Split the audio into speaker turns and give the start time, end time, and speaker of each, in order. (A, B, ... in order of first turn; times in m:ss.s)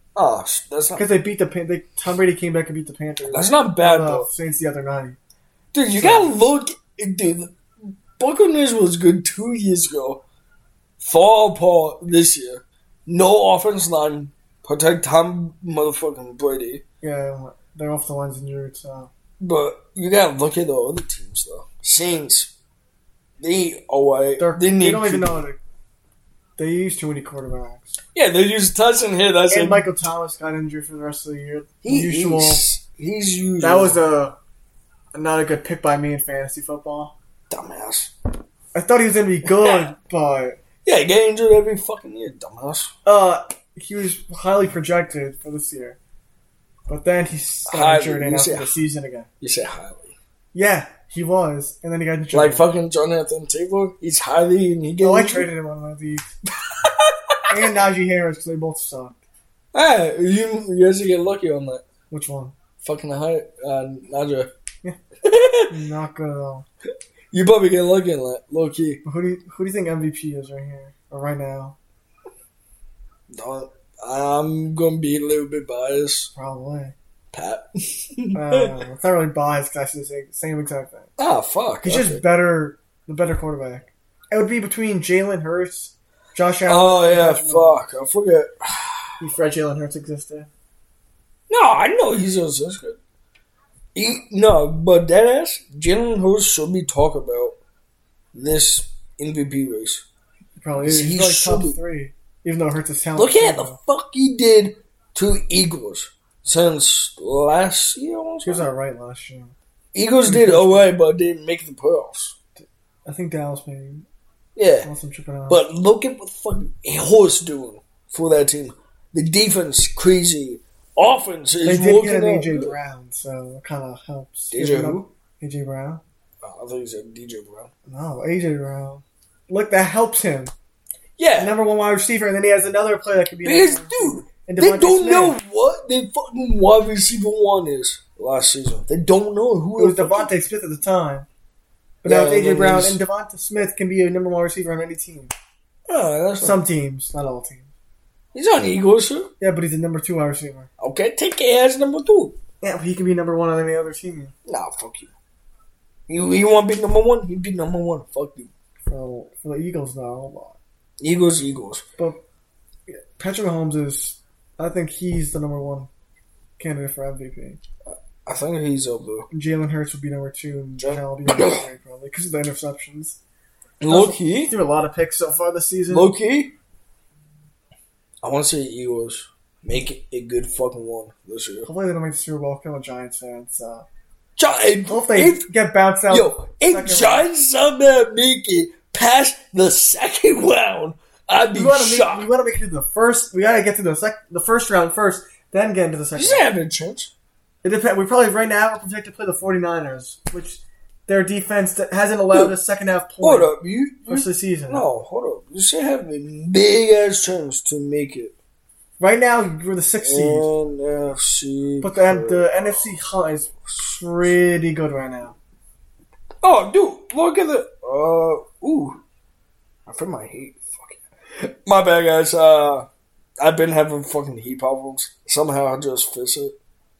0:00.1-0:01.1 A
0:01.0-0:05.2 B
0:03.3-0:04.3 A
0:05.7-0:10.2 A
0:06.0-0:06.4 B
0:11.0-0:16.8 A
0:17.0-0:19.1 B
0:19.4-0:22.5 A
0:23.4-0:25.4 A
0:24.4-0:25.6 B
0:26.6-0:28.0 B
0:28.1-0:29.9 A
0:29.5-0:32.6 B
0:31.8-0:34.0 A
0:33.6-0:34.3 B
0:35.1-0:37.2 B
0:37.5-0:38.1 A
0:38.7-0:40.6 B
0:39.6-0:39.8 A
0:40.8-0:42.9 A
0:43.0-0:46.0 B
0:46.9-0:49.3 B
0:47.6-0:48.7 A
0:49.4-0:50.2 A
0:50.5-0:52.7 B
0:52.3-0:55.5 A
0:55.0-0:56.2 B
0:56.6-0:57.5 A
0:57.5-0:59.2 B
0:59.7-1:01.8 A
1:02.1-1:02.6 B
1:02.8-1:04.5 A
1:05.2-1:05.8 A
1:05.7-1:06.6 B
1:07.3-1:09.0 A
1:09.0-1:11.8 B
1:13.3-1:16.3 A
1:16.3-1:16.9 B
1:17.3-1:18.8 A
1:18.3-1:21.1 B
1:21.2-1:22.2 A
1:21.8-1:27.8 B
1:26.7-1:29.1 A
1:29.2-1:30.5 B
1:31.5-1:33.0 A
1:33.9-1:37.6 A
1:38.3-1:40.0 A
1:40.6-1:43.8 B
1:40.8-1:41.8 A
1:43.2-1:48.6 A
1:48.4-1:49.5 B
1:49.9-1:52.3 A
1:50.2-1:50.9 B
1:52.6-1:54.1 B
1:54.6-1:54.9 A
1:54.8-1:55.6 B
1:55.5-2:02.7 A
2:01.6-2:06.0 B
2:04.5-2:05.1 A
2:06.4-2:07.7 A
2:07.8-2:10.5 B
2:11.2-2:11.6 A
2:11.4-2:15.4 B
2:13.4-2:20.4 A
2:19.8-2:21.3 B
2:22.0-2:25.3 B
2:22.0-2:23.0 A
2:25.9-2:26.6 A
2:26.4-2:27.7 B
2:28.3-2:29.3 A
2:29.4-2:30.7 B
2:30.8-2:32.4 A
2:32.6-2:34.3 B
2:34.4-2:35.1 A
2:36.1-2:38.5 A
2:38.9-2:40.6 B
2:41.0-2:41.8 A
2:42.0-2:42.2 B
2:42.9-2:45.9 B
2:46.6-2:47.6 B
2:47.8-2:49.3 A
2:49.3-2:53.2 B
2:50.8-2:51.6 A
2:53.8-2:54.5 A
2:53.9-2:56.1 B
2:55.9-2:56.5 A
2:58.2-3:01.7 A
3:01.6-3:03.8 B
3:04.4-3:05.4 A
3:04.9-3:07.3 B
3:06.1-3:12.3 A
3:11.5-3:16.4 B
3:16.1-3:17.1 A
3:17.6-3:23.5 B
3:23.2-3:28.3 A
3:24.1-3:24.8 B
3:29.0-3:30.5 B
3:30.0-3:33.0 A
3:31.8-3:35.4 B
3:33.7-3:34.0 A
3:36.4-3:39.0 A
3:39.9-3:42.9 A
3:43.4-3:46.5 A